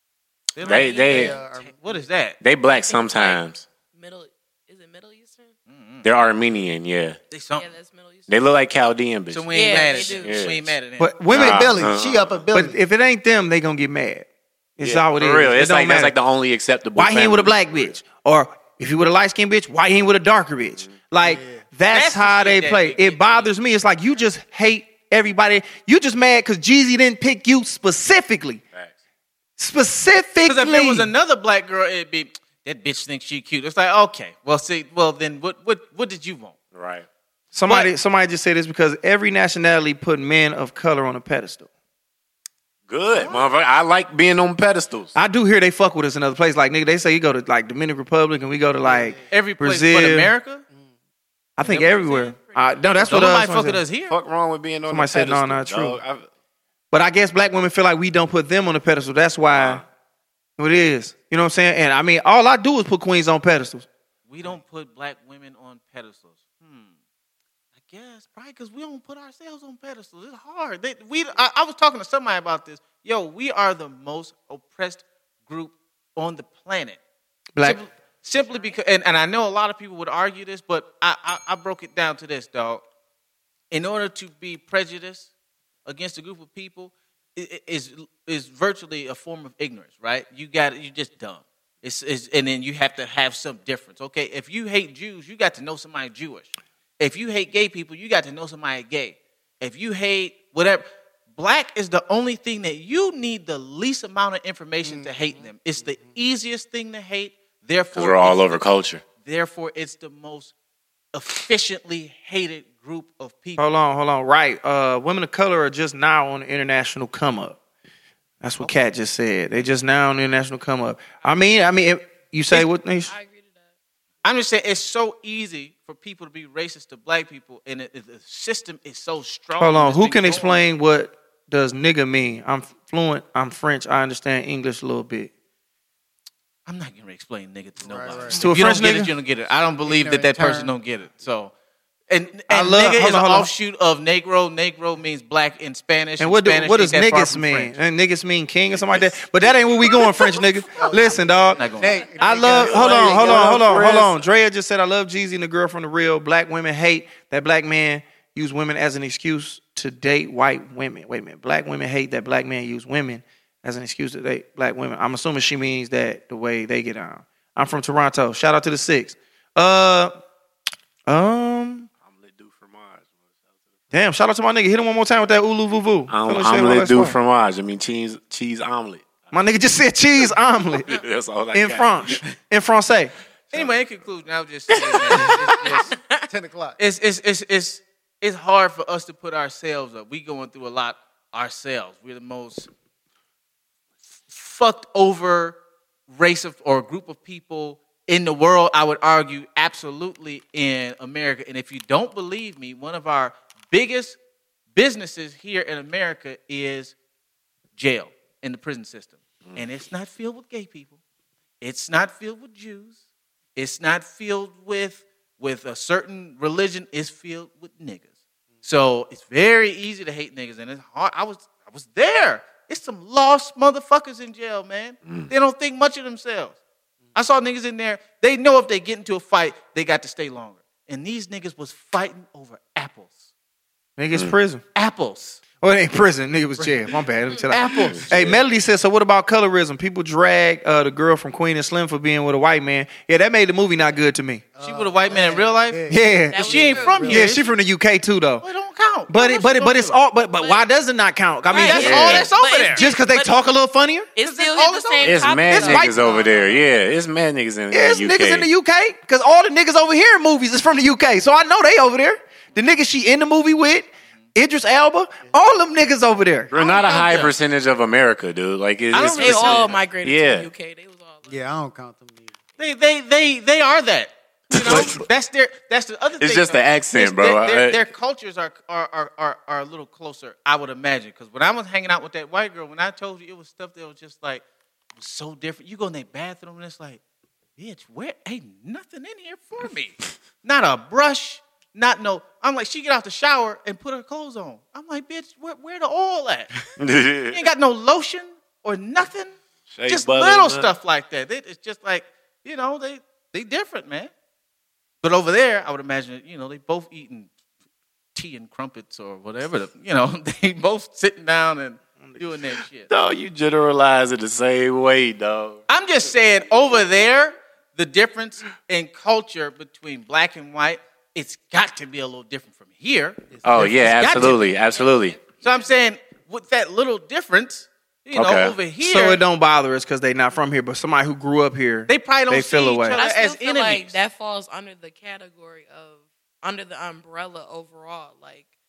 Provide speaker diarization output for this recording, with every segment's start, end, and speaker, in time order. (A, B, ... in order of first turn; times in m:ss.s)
0:00.5-0:02.4 A
0:00.6-0:01.4 B
0:00.7-0:01.3 C
0:01.0-0:02.0 D
0:02.4-0:03.6 B
0:02.7-0:03.4 C
0:03.9-0:05.5 C
0:05.7-0:06.0 A
0:06.0-0:07.2 B
0:07.3-0:07.7 A
0:07.6-0:08.3 C
0:08.3-0:10.7 B
0:09.3-0:11.1 A
0:09.5-0:10.6 C
0:11.0-0:11.7 E
0:11.3-0:12.8 D
0:11.3-0:12.4 B
0:12.5-0:14.3 E
0:14.8-0:16.1 E
0:14.8-0:17.9 B
0:17.0-0:28.6 E
0:21.2-0:21.6 D
0:21.9-0:23.5 A
0:29.6-0:31.1 E
0:30.4-0:36.5 A
0:36.7-0:37.0 B
0:37.5-0:41.7 E
0:42.9-0:45.1 B
0:43.1-0:43.5 A
0:45.1-0:50.3 E
0:48.8-0:49.3 D
0:49.3-0:50.6 A
0:51.6-0:53.8 E
0:51.6-0:52.4 A
0:52.9-0:54.1 A
0:54.1-0:56.2 B
0:54.9-0:56.0 E
0:56.9-0:59.8 E
0:59.5-0:59.8 B
1:00.6-1:03.9 E
1:04.3-1:06.9 A
1:07.8-1:17.0 A
1:17.5-1:17.8 E
1:17.6-1:22.8 A
1:23.7-1:25.3 A
1:25.8-1:48.6 A
1:44.8-1:46.1 D
1:48.0-1:49.0 B
1:49.2-1:50.5 A
1:51.1-1:53.6 A
1:53.6-1:57.6 E
1:58.4-2:03.1 E
2:03.0-2:03.7 C
2:04.2-2:10.6 A
2:09.6-2:15.3 E
2:16.6-2:21.5 A
2:17.8-2:18.4 D
2:18.3-2:19.1 E
2:19.8-2:20.7 D
2:22.1-2:27.8 A
2:22.5-2:23.5 E
2:26.2-2:31.6 E
2:28.7-2:29.2 B
2:30.8-2:34.0 D
2:31.5-2:34.0 A
2:32.2-2:50.1 E
2:32.5-2:32.9 B
2:51.1-2:51.9 E
2:52.0-2:53.4 B
2:53.9-2:57.2 E
2:56.1-2:59.3 B
2:59.3-3:00.9 E
3:00.9-3:02.2 B
3:01.5-3:03.1 E
3:03.5-3:05.9 A
3:04.9-3:06.3 C
3:05.4-3:06.8 D
3:06.8-3:12.7 A
3:14.3-3:15.6 A
3:16.1-3:24.2 A
3:24.7-3:26.9 A
3:27.8-3:31.0 A
3:31.6-3:33.0 A
3:33.6-3:38.1 A
3:38.6-3:46.6 A
3:47.1-3:53.2 A
3:54.0-3:54.6 E
3:54.7-3:55.4 A
3:55.6-4:04.5 E
3:57.5-3:58.0 A
3:57.8-3:58.4 B
4:04.6-4:07.4 D
4:04.6-4:05.8 A
4:05.9-4:08.4 E
4:06.3-4:07.3 C
4:06.4-4:07.4 A
4:08.4-4:10.0 A
4:09.1-4:14.1 E
4:10.4-4:10.6 C
4:11.5-4:13.5 C
4:11.6-4:12.8 A
4:11.8-4:12.2 B
4:14.1-4:15.9 C
4:14.2-4:16.2 A
4:15.0-4:18.5 B
4:15.6-4:16.3 E
4:17.7-4:26.5 E
4:26.5-4:27.3 A
4:26.5-4:30.5 B
4:28.9-4:29.7 A
4:29.0-4:31.4 C
4:31.3-4:32.3 D
4:32.6-4:44.4 A
4:34.5-4:34.9 C
4:34.7-4:35.0 E
4:36.2-4:37.8 B
4:45.0-4:47.0 A
4:47.6-4:56.5 A
4:56.8-4:57.4 B
4:57.3-4:59.4 A
4:59.7-5:00.7 B
4:59.9-5:04.1 A
5:05.0-5:07.3 A
5:08.1-5:12.9 A
5:12.9-5:15.6 B
5:15.7-5:23.2 A
5:23.3-5:23.7 D
5:23.4-5:25.2 B
5:23.7-5:24.5 A
5:24.2-5:25.7 C
5:25.4-5:29.2 A
5:28.1-5:28.6 B
5:28.8-5:33.0 E
5:31.9-5:34.0 A
5:32.9-5:38.5 C